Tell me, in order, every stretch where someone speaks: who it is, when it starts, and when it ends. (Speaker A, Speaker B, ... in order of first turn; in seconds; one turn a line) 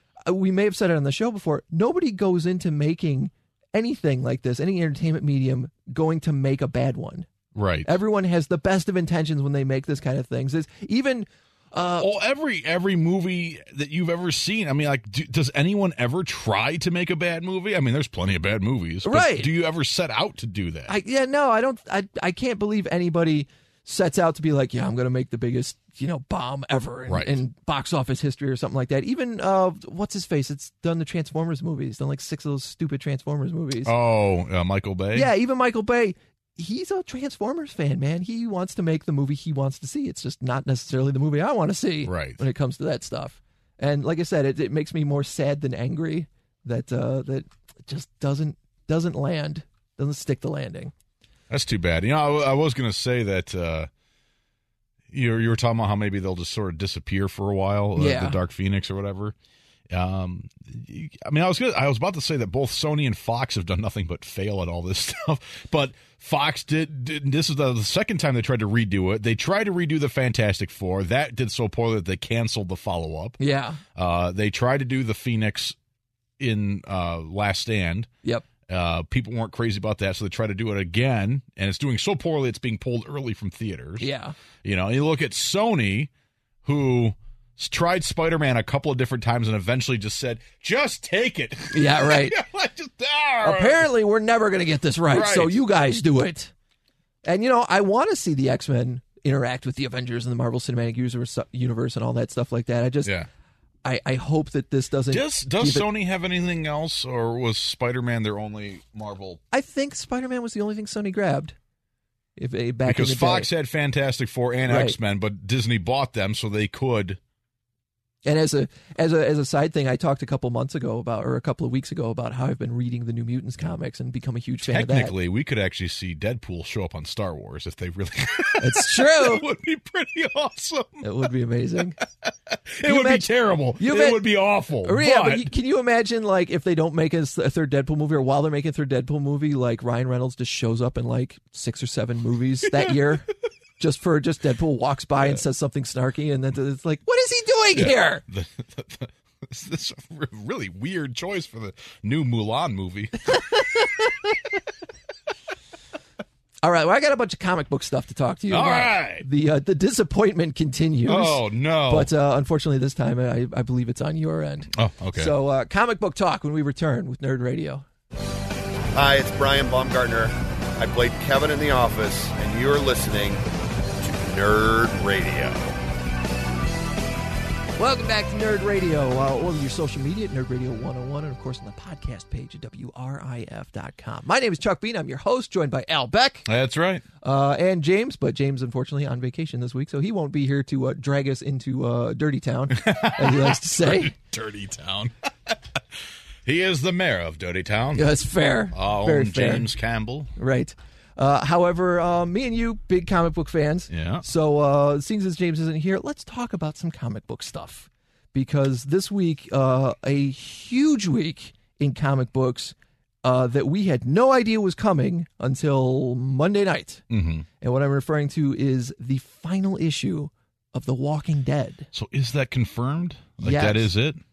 Speaker A: 0.2-7.3
Speaker B: 7.5-7.9
Speaker A: 7.8-12.1
Speaker B: 12.0-20.9
Speaker A: 19.0-19.5
Speaker A: 20.9-33.9
Speaker B: 27.1-27.4
Speaker B: 33.8-35.3
Speaker A: 35.1-50.9
Speaker B: 42.0-42.4
Speaker B: 51.5-53.9
Speaker B: 55.1-59.3
Speaker A: 58.0-58.4
Speaker B: 59.9-73.4
Speaker A: 73.4-73.8
Speaker B: 73.9-75.8
Speaker B: 76.4-78.1
Speaker B: 78.7-84.1
Speaker A: 84.0-84.3
Speaker B: 84.6-86.1
Speaker B: 86.6-93.9
Speaker A: 91.7-92.4
Speaker A: 93.4-96.5
Speaker B: 95.1-95.6
Speaker A: 97.2-103.1
Speaker A: 103.8-105.9
Speaker B: 105.1-109.4
Speaker A: 109.5-111.5
Speaker A: 112.4-113.5
Speaker B: 112.8-117.2
Speaker A: 114.7-115.0
Speaker A: 118.2-125.1
Speaker B: 124.7-131.2
Speaker A: 128.6-129.4
Speaker A: 131.0-132.0
Speaker B: 132.0-135.5
Speaker A: 132.8-134.2
Speaker A: 134.8-148.2
Speaker B: 147.7-153.4
Speaker A: 156.6-167.8
Speaker B: 158.5-159.2
Speaker B: 161.1-162.1
Speaker B: 164.7-165.3
Speaker C: 168.9-173.4
Speaker C: 174.0-175.7
Speaker A: 177.8-186.4
Speaker B: 186.4-187.0
Speaker A: 187.2-194.1
Speaker B: 192.7-195.8
Speaker B: 196.4-198.1
Speaker A: 197.9-199.7
Speaker B: 198.7-200.3
Speaker A: 200.4-217.0
Speaker B: 203.9-204.2
Speaker B: 217.1-217.4
Speaker A: 217.6-221.9
Speaker B: 221.9-224.2
Speaker A: 223.4-223.9